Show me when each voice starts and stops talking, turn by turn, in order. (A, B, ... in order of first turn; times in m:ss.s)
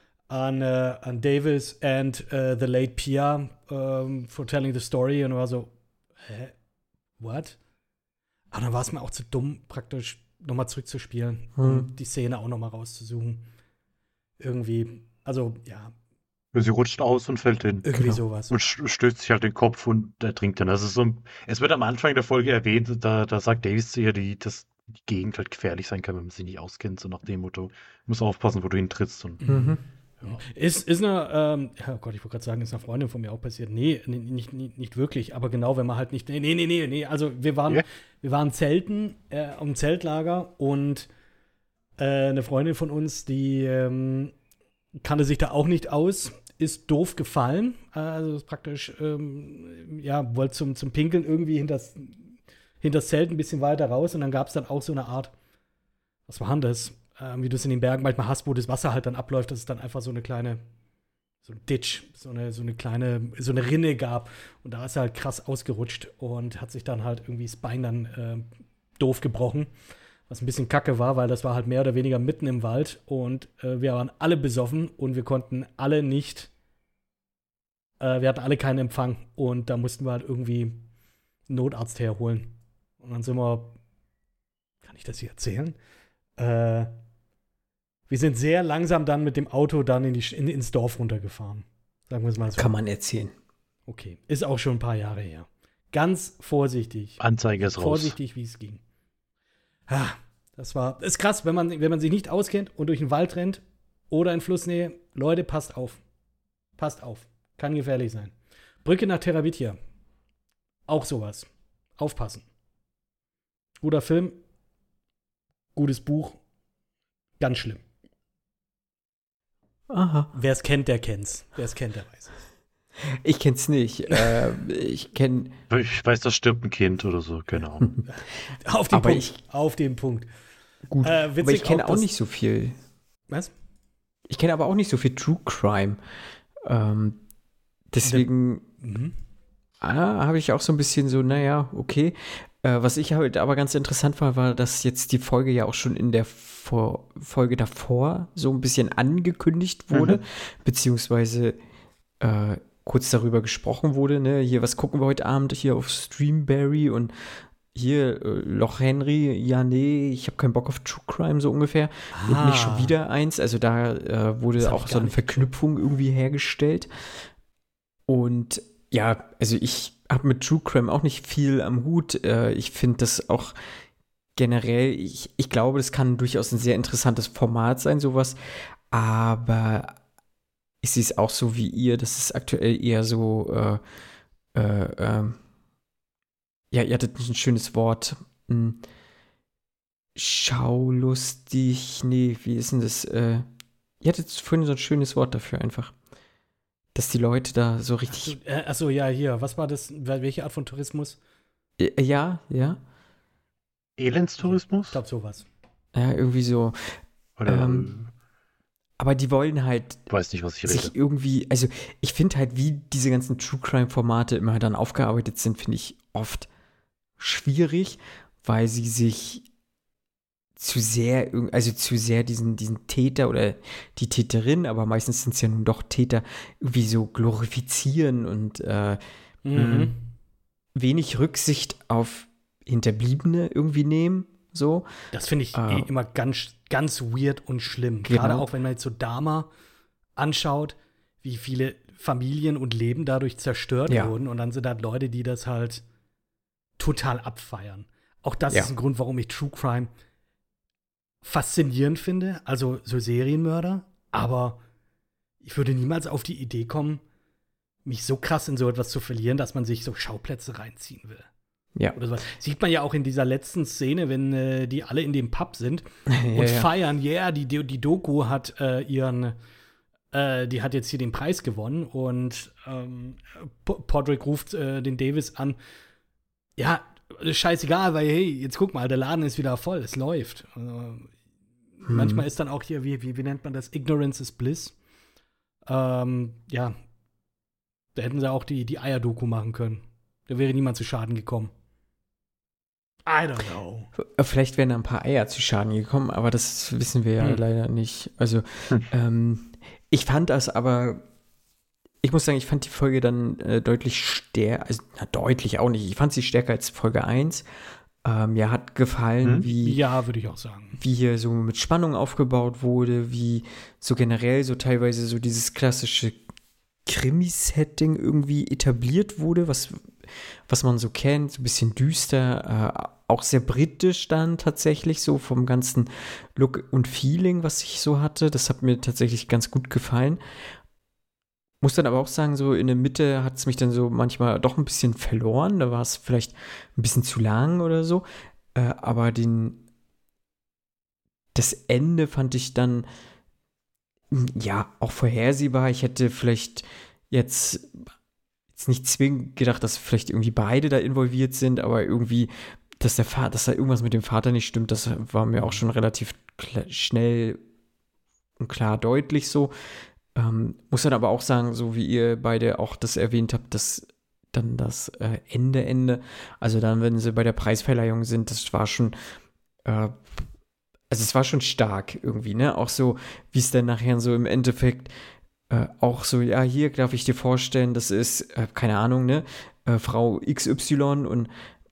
0:00.3-0:05.7 A
0:06.2-0:06.5 A
0:07.2-0:07.6 A
0:08.5-0:13.4 A
0:11.6-0:11.9 B
0:14.4-0:15.9 A
0:16.5-0:18.0 C
0:17.8-0:18.5 A
0:18.5-0:29.4 C
0:29.4-0:41.1 A
0:29.5-0:29.8 B
0:42.0-0:44.3 A
0:45.0-0:55.3 A
0:56.3-1:00.6 A
1:01.4-1:08.5 A
1:09.0-1:09.7 A
1:10.3-1:16.5 A
1:18.0-1:20.9 A
1:21.5-1:23.8 A
1:24.8-1:25.8 A
1:26.4-1:27.0 A
1:28.1-1:32.7 A
1:32.5-1:33.3 B
1:33.9-1:37.2 A
1:37.2-1:38.1 C
1:37.8-1:38.8 A
1:39.9-1:46.0 A
1:46.8-1:49.8 A
1:50.9-1:52.4 A
1:53.8-1:54.4 A
1:55.7-1:56.4 A
1:57.4-1:57.8 A
1:59.9-2:00.3 B
2:00.3-2:02.4 A
2:03.2-2:05.5 B
2:05.7-2:07.9 C
2:08.1-2:10.3 A
2:08.9-2:09.4 B
2:10.9-2:12.8 B
2:11.0-2:12.1 A
2:14.3-2:16.0 B
2:16.6-2:17.2 B
2:17.9-2:18.6 B
2:18.0-2:18.3 A
2:18.8-2:19.2 A
2:19.8-2:31.6 B
2:29.9-2:30.2 C
2:32.2-2:37.1 B
2:37.7-2:46.9 B
2:42.1-2:42.9 A
2:44.6-2:45.5 A
2:48.1-2:53.5 B
2:54.4-2:58.4 B
2:58.9-3:00.0 B
3:00.8-3:03.8 B
3:04.5-3:05.4 B
3:06.7-3:08.8 B
3:10.2-3:13.4 B
3:14.0-3:15.9 B
3:16.9-3:18.4 B
3:18.1-3:21.2 A
3:21.8-3:22.8 B
3:24.0-3:25.0 C
3:24.4-3:25.4 A
3:25.9-3:27.9 B
3:27.4-3:28.1 C
3:29.0-3:30.0 B
3:30.1-3:30.9 C
3:30.6-3:36.5 B
3:37.2-3:39.4 B
3:40.6-3:49.0 B
3:49.4-3:50.0 A
3:49.5-3:49.9 B
3:50.7-3:54.9 B
3:55.1-3:59.5 A
3:55.5-3:55.9 B
3:58.0-3:58.4 B
4:00.2-4:05.8 A
4:06.8-4:09.9 A
4:11.2-4:14.6 A
4:15.4-4:17.0 A
4:17.8-4:21.3 A
4:21.9-4:29.4 A
4:26.1-4:26.7 B
4:30.1-4:35.6 A
4:36.6-4:41.1 A
4:41.8-4:44.8 A
4:41.9-4:42.2 B
4:45.7-4:46.8 A
4:47.9-4:51.5 A
4:53.0-4:53.9 A
4:54.0-5:01.0 B
5:02.0-5:07.4 B
5:08.0-5:09.8 B
5:09.6-5:10.8 A
5:10.8-5:16.2 B
5:16.8-5:19.8 B
5:20.5-5:30.2 B
5:31.6-5:39.6 B
5:41.3-5:42.9 B
5:44.1-5:47.8 B
5:48.6-5:57.4 B
5:58.4-5:59.5 B
6:00.1-6:08.9 B
6:09.6-6:10.2 B
6:10.9-6:14.9 B
6:15.5-6:21.3 B